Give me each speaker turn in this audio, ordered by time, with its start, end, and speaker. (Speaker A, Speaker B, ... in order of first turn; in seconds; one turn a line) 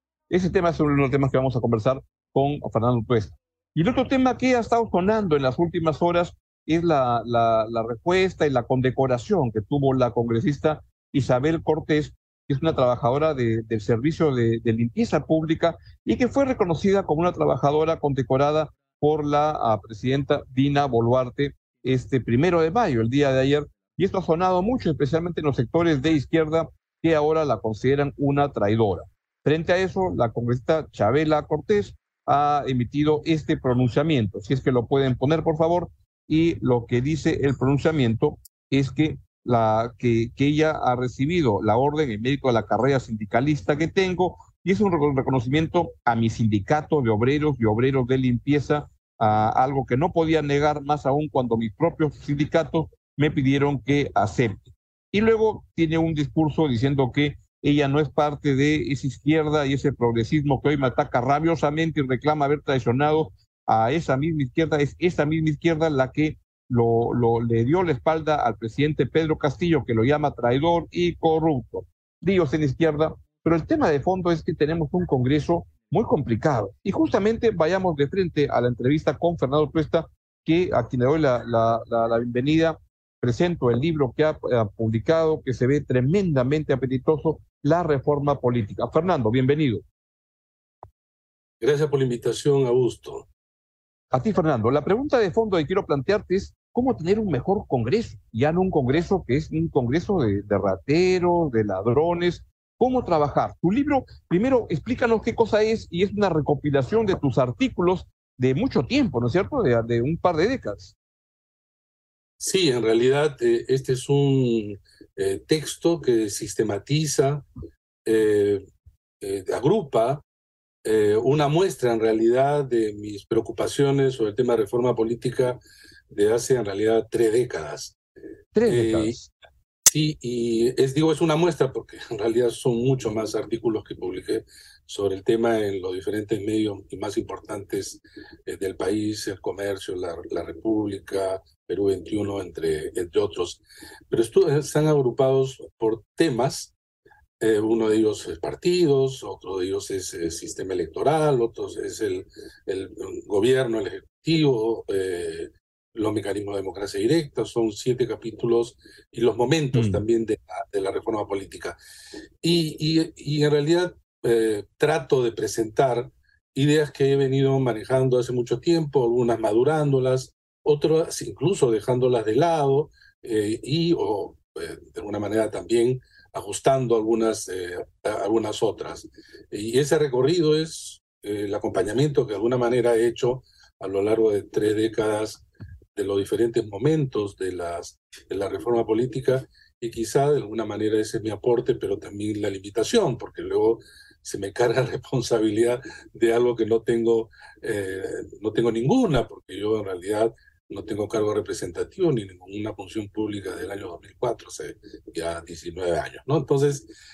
Speaker A: 0.3-54.6
Speaker A: 55.1-89.8
Speaker B: 91.6-93.3
Speaker A: 94.1-110.9
Speaker B: 112.4-117.5
Speaker B: 118.0-118.6
Speaker B: 119.2-120.2
Speaker B: 120.8-128.0
Speaker A: 128.6-129.3
Speaker B: 128.7-129.2
Speaker B: 129.9-146.7
Speaker B: 147.4-161.8
Speaker A: 159.7-160.0
Speaker B: 162.4-206.9